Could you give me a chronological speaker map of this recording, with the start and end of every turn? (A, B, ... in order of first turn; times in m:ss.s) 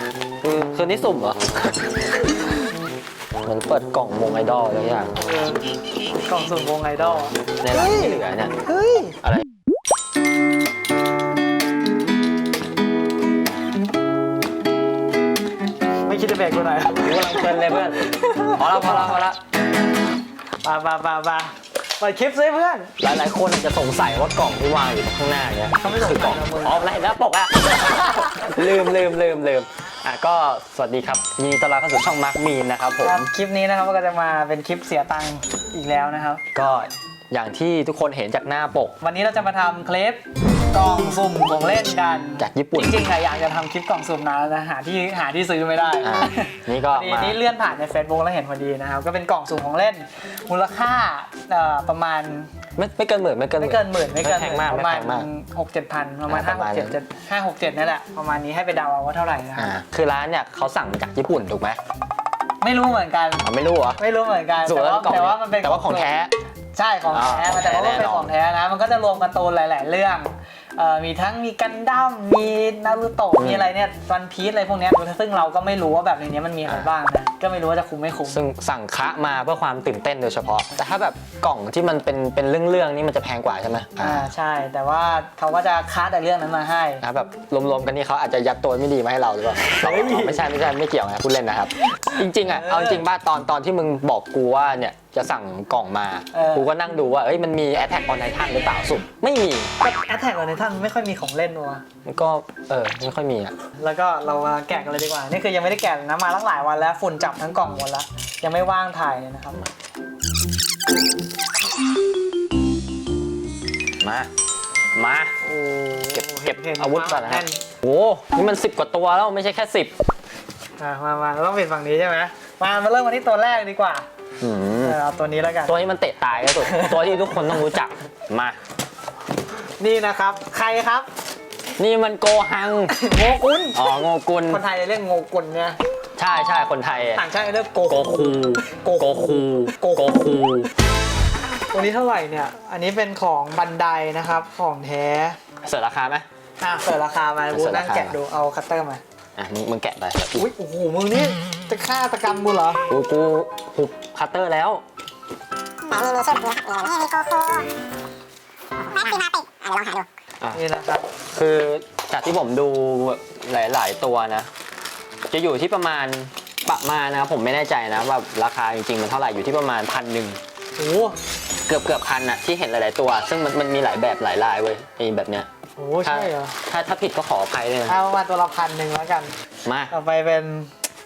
0:00.4-0:01.5 A
0:03.4-0:05.2 A
0:05.2-0:05.6 B
0:06.2-0:09.2 B
0:07.6-0:08.5 A
0:16.0-0:19.2 B
0:17.0-0:19.4 A
0:20.6-0:22.9 B
0:23.0-0:33.3 A
0:25.8-0:27.0 B
0:33.0-0:36.4 B
0:36.5-0:39.0 A
0:39.0-0:52.5 B
0:42.4-0:43.1 A
0:46.0-0:47.4 A
0:52.8-0:55.3 A
0:53.6-0:59.7 B
0:56.3-0:56.9 A
0:59.6-1:01.8 A
1:02.6-1:03.4 B
1:03.4-1:04.0 A
1:04.0-1:06.1 B
1:04.6-1:06.3 A
1:06.7-1:18.4 B
1:07.1-1:08.3 A
1:13.4-1:13.7 A
1:18.3-1:24.3 A
1:24.0-1:27.0 B
1:27.0-1:39.7 A
1:29.6-1:30.5 B
1:31.9-1:33.0 B
1:36.3-1:36.7 B
1:39.8-1:41.8 B
1:42.0-1:43.5 A
1:43.8-1:49.6 B
1:54.0-1:54.3 A
1:54.9-1:55.4 A
1:55.4-1:57.6 B
1:56.1-1:59.9 A
2:00.8-2:04.1 B
2:04.4-2:05.0 A
2:04.8-2:05.7 B
2:05.6-2:08.6 A
2:06.6-2:07.6 B
2:09.8-2:11.1 B
2:11.8-2:13.0 A
2:12.9-2:13.9 B
2:13.7-2:14.6 A
2:14.5-2:15.8 B
2:16.2-2:17.2 A
2:17.1-2:20.1 B
2:17.9-2:20.7 A
2:21.7-2:25.4 B
2:25.6-2:26.2 A
2:26.6-2:29.0 B
2:27.5-2:28.2 A
2:29.4-2:30.5 A
2:30.3-2:32.8 B
2:32.9-2:34.8 A
2:35.8-2:37.7 C
2:38.8-2:40.0 C
2:40.5-2:41.1 B
2:41.3-2:44.5 A
2:45.3-2:50.4 A
2:50.8-2:51.2 B
2:51.7-2:55.5 A
2:55.8-2:56.6 B
2:56.0-2:58.0 A
2:57.9-2:59.3 B
2:59.6-2:59.9 A
2:59.9-3:00.7 B